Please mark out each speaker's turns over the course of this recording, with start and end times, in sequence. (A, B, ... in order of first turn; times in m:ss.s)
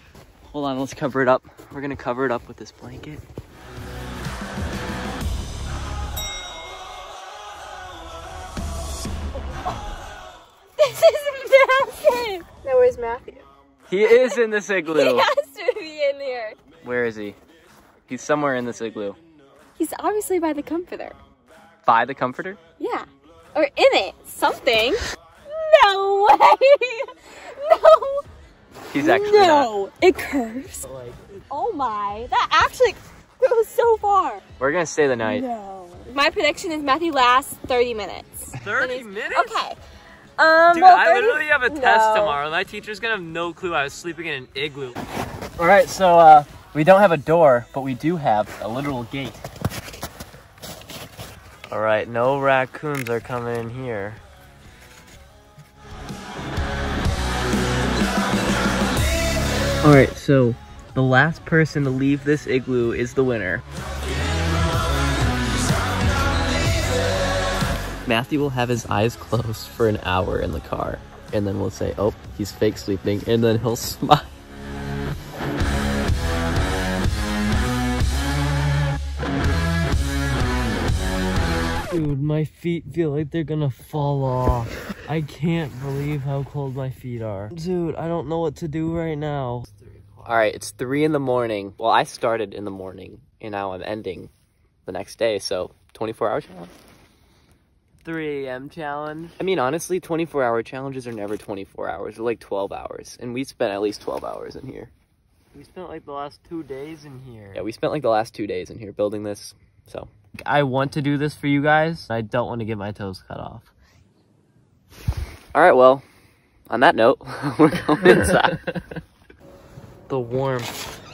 0:00.5-0:03.2 A
0:10.8-0:13.4 B
0:13.9-0:15.3 A
0:14.9-0:16.6 B
0:16.8-0:17.4 A
0:18.1-0:19.2 A
0:19.8-0:21.2 B
0:21.8-0:22.6 A
0:22.8-0:28.2 B
0:28.9-0:29.7 A
0:29.0-0:30.8 B
0:31.5-0:34.4 B
0:34.6-0:35.5 A
0:35.2-0:39.8 B
0:38.5-0:39.6 C
0:40.4-0:42.4 B
0:40.7-0:45.0 C
0:45.6-0:49.4 A
0:51.7-0:54.2 C
0:59.8-1:03.6 A
1:08.0-1:14.3 A
1:21.9-1:30.3 C
1:30.2-1:34.3 A
1:34.8-1:36.7 A
1:38.0-1:39.3 C
1:39.4-1:44.9 A
1:45.5-1:47.6 C
1:47.5-1:50.1 A
1:50.4-1:53.7 C
1:55.5-1:56.0 A
1:56.7-1:58.6 A
1:58.0-1:58.8 C
2:00.1-2:00.7 C